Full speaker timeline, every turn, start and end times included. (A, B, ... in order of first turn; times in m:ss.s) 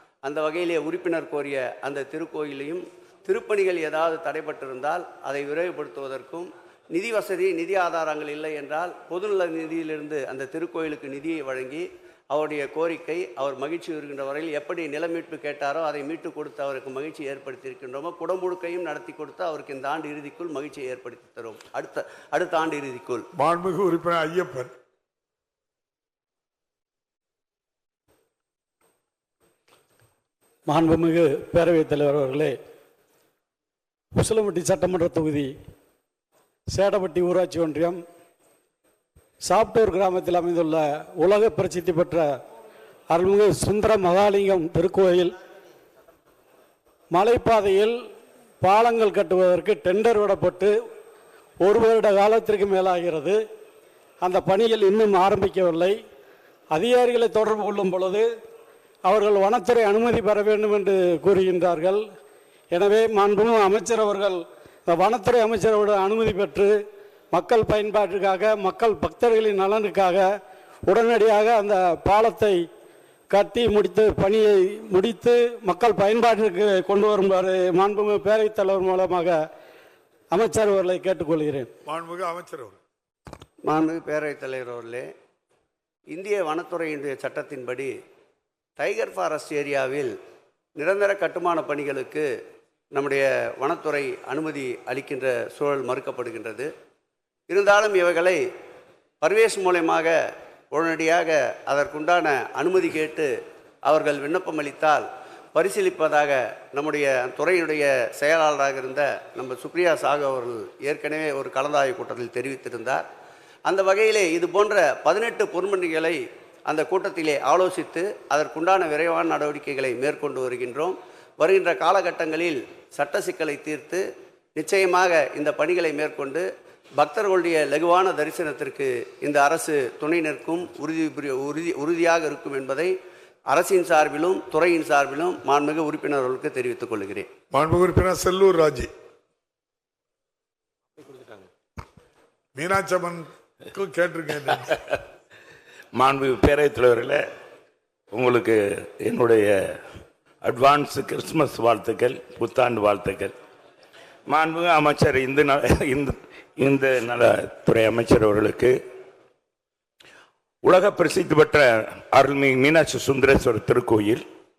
0:00.2-0:23.2 A
0:23.4-0:24.7 B
0:30.7-0:32.5 C
0:34.2-0:35.5 C
0:36.7-0:38.0 C
0:39.4-0:42.2 C
0:43.1-0:45.3 C
0:47.1-0:47.9 C
0:48.6-0:50.7 C
0:51.6-0:53.4 C
0:54.2-0:56.0 C
0:56.7-0:58.2 C
0:59.0-1:02.0 C
1:02.7-1:06.7 C
1:07.3-1:10.2 C
1:10.9-1:12.6 C
1:13.3-1:19.4 C
1:20.3-1:21.7 C
1:21.9-1:22.8 B
1:23.7-1:25.1 A
1:26.1-1:27.9 A
1:28.8-1:30.1 A
1:30.8-1:32.2 A
1:32.9-1:36.7 A
1:37.5-1:38.4 A
1:39.2-1:40.1 A
1:40.7-1:43.3 A
1:43.8-1:53.0 A
1:53.7-2:04.0 A
2:04.6-2:06.4 A
2:07.0-2:12.9 A
2:13.5-2:17.3 A
2:17.5-2:18.9 B
2:22.6-2:24.6 B
2:26.0-2:27.2 D
2:28.1-2:29.5 D
2:30.4-2:33.3 D
2:34.3-2:38.7 D
2:40.6-2:44.2 D